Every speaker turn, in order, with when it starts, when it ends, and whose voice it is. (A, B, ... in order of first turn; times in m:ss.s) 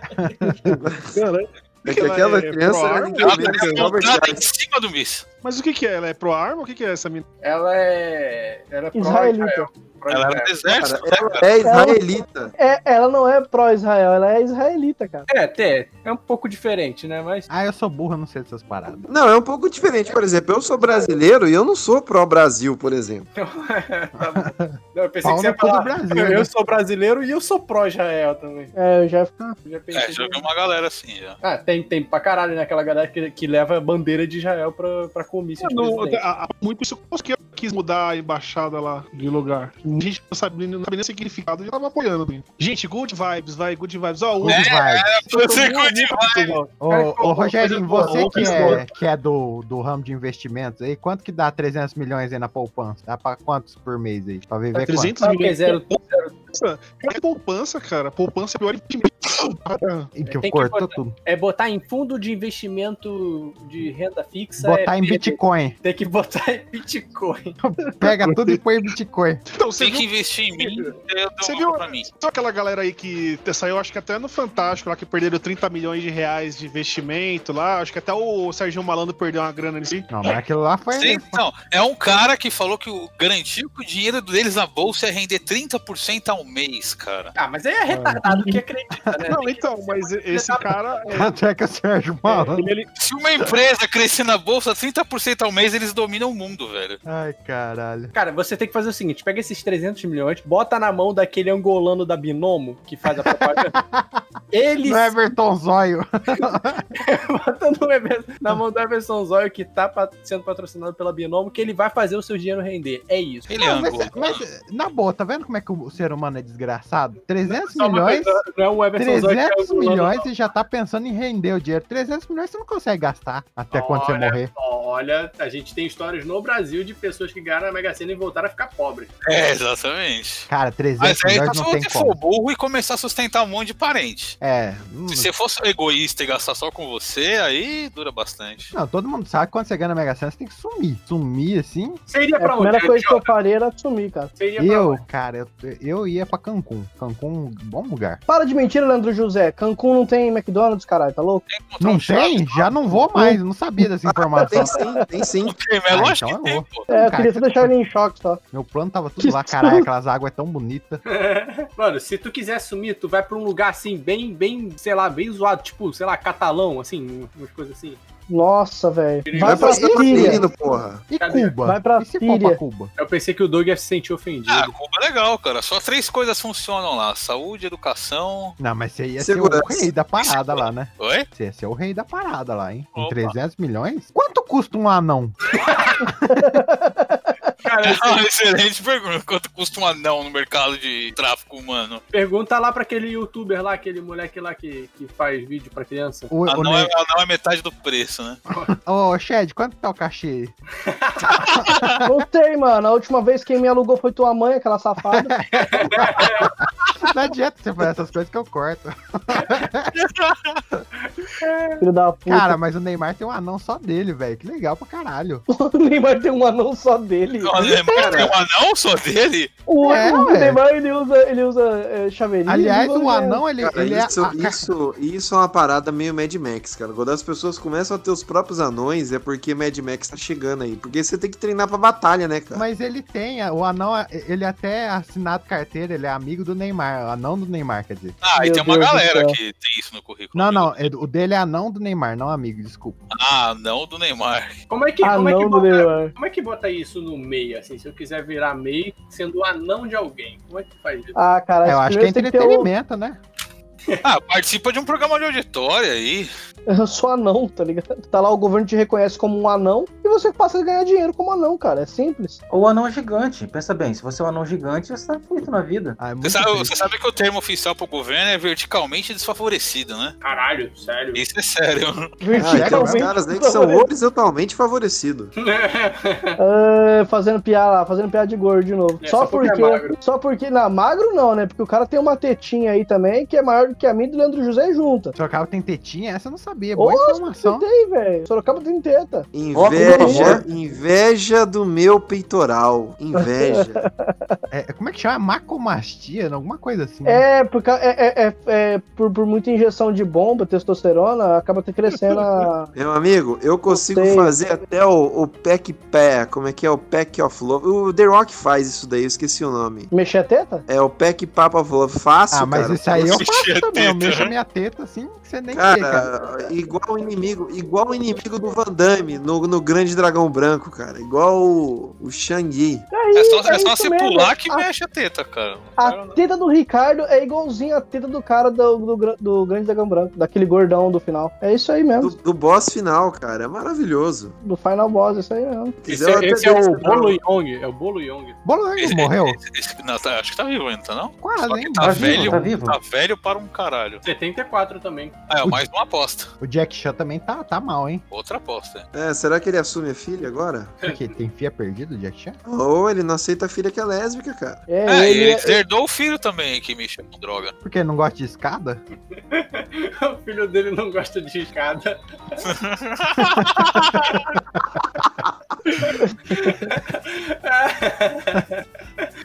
0:00.1-0:00.8 A
0:00.7-0:01.1 B
0:01.1-0:03.8 C
0:01.8-0:04.5 B
0:03.2-0:05.2 D
0:05.4-0:07.3 C
0:07.4-0:10.7 E
0:09.0-0:09.7 F
0:10.1-0:11.5 D
0:10.8-0:12.5 B
0:11.6-0:12.0 F
0:12.6-0:15.3 F
0:15.3-0:17.5 E
0:17.5-0:19.1 A
0:19.1-0:23.3 B
0:23.4-0:28.7 E
0:24.2-0:26.5 A
0:28.8-0:29.6 F
0:29.6-0:30.4 E
0:29.9-0:31.4 D
0:31.4-0:36.2 E
0:35.6-0:46.8 C
0:44.4-0:45.2 A
0:44.4-0:46.6 D
0:46.8-0:55.1 A
0:46.9-0:48.8 E
0:47.8-0:48.8 C
0:54.7-1:00.1 C
0:55.2-0:56.4 E
1:00.2-1:01.2 A
1:00.3-1:07.6 E
1:04.6-1:05.8 A
1:07.6-1:09.4 A
1:08.0-1:08.7 C
1:09.5-1:10.1 C
1:09.8-1:12.1 D
1:10.6-1:20.1 C
1:20.1-1:21.4 A
1:20.9-1:27.3 D
1:27.4-1:30.8 E
1:28.3-1:28.6 C
1:29.2-1:31.3 C
1:31.1-1:32.7 A
1:32.3-1:32.9 C
1:33.0-1:37.0 D
1:37.1-1:38.1 A
1:38.1-1:43.8 E
1:43.2-1:44.2 A
1:44.5-1:45.2 E
1:44.8-1:46.9 A
1:47.0-1:53.6 E
1:53.5-1:54.4 D
1:53.6-1:58.4 A
1:57.4-2:00.3 E
1:59.0-2:04.5 A
2:03.7-2:09.1 E
2:09.2-2:14.4 D
2:10.5-2:12.2 A
2:14.4-2:15.3 A
2:15.1-2:18.7 D
2:18.7-2:22.0 A
2:22.1-2:23.3 E
2:22.4-2:24.3 F
2:24.4-2:25.0 E
2:24.6-2:28.2 A
2:28.3-2:31.4 F
2:31.5-2:32.8 D
2:31.8-2:34.8 A
2:34.1-2:35.6 B
2:35.5-2:36.9 D
2:35.9-2:37.7 A
2:36.9-2:38.4 F
2:38.5-2:41.0 A
2:39.2-2:39.9 F
2:41.1-2:48.0 E
2:48.3-2:50.4 F
2:49.3-2:50.1 E
2:49.4-2:51.1 B
2:49.5-2:50.5 A
2:51.1-2:52.9 A
2:51.2-2:51.6 E
2:51.6-2:52.6 F
2:53.0-2:54.7 E
2:54.5-2:58.6 D
2:58.6-3:05.4 A
2:59.2-2:59.9 B
3:00.2-3:01.3 D
3:03.0-3:03.4 D
3:06.3-3:07.3 F
3:07.6-3:08.2 E
3:07.8-3:12.0 D
3:12.1-3:16.3 E
3:16.3-3:16.9 A
3:16.5-3:18.4 D
3:18.7-3:20.5 A
3:20.9-3:21.1 E
3:21.6-3:22.0 A
3:21.7-3:21.9 D
3:22.0-3:25.4 F
3:25.1-3:26.5 A
3:25.7-3:26.5 E
3:27.0-3:29.9 A
3:30.0-3:30.6 D
3:31.4-3:31.7 E
3:31.8-3:32.6 F
3:32.3-3:35.4 A
3:35.5-3:37.6 F
3:37.4-3:39.5 D
3:37.6-3:38.4 B
3:39.7-3:43.4 F
3:39.8-3:40.6 A
3:42.5-3:44.7 A
3:43.6-3:52.6 B
3:52.5-3:58.2 A
3:58.2-4:00.9 D
3:58.4-3:59.4 F
4:00.3-4:03.0 A
4:03.1-4:04.6 D
4:04.7-4:11.1 E
4:05.0-4:06.1 F
4:11.2-4:12.7 F
4:11.6-4:13.2 A
4:14.0-4:16.3 D
4:16.7-4:22.4 F
4:22.5-4:26.0 G
4:26.0-4:26.9 A
4:26.2-4:30.2 D
4:30.2-4:31.2 E
4:31.1-4:32.1 D
4:32.2-4:33.9 F
4:32.4-4:33.1 A
4:32.4-4:35.3 B
4:35.4-4:36.4 E
4:36.4-4:45.1 F
4:39.0-4:40.0 E
4:45.2-4:47.7 A
4:46.8-4:50.4 F
4:49.3-4:53.8 B
4:49.5-4:50.5 G
4:53.2-4:53.9 F
4:54.5-4:57.3 A
4:57.1-5:02.7 F
5:02.7-5:09.9 B
5:03.7-5:04.3 F
5:09.9-5:10.6 F
5:10.7-5:13.2 B
5:12.3-5:16.1 A
5:13.1-5:14.3 D
5:15.5-5:22.9 B
5:22.9-5:24.6 F
5:23.2-5:25.7 D
5:25.8-5:32.1 F
5:25.8-5:26.2 E
5:32.0-5:34.4 B
5:34.4-5:35.8 F
5:35.8-5:37.2 B
5:35.9-5:38.4 E
5:38.4-5:39.4 A
5:38.8-5:44.0 D
5:41.2-5:42.5 A
5:41.8-5:42.8 G
5:44.0-5:45.2 E
5:45.3-5:46.3 D
5:46.4-5:48.0 A
5:48.1-5:48.9 D
5:48.9-5:50.8 B
5:50.8-5:52.4 A
5:52.4-5:54.7 B
5:54.7-5:55.6 F
5:54.9-5:57.5 D
5:57.6-5:58.8 A
5:59.3-6:02.0 E
6:02.4-6:04.3 D
6:06.3-6:09.0 E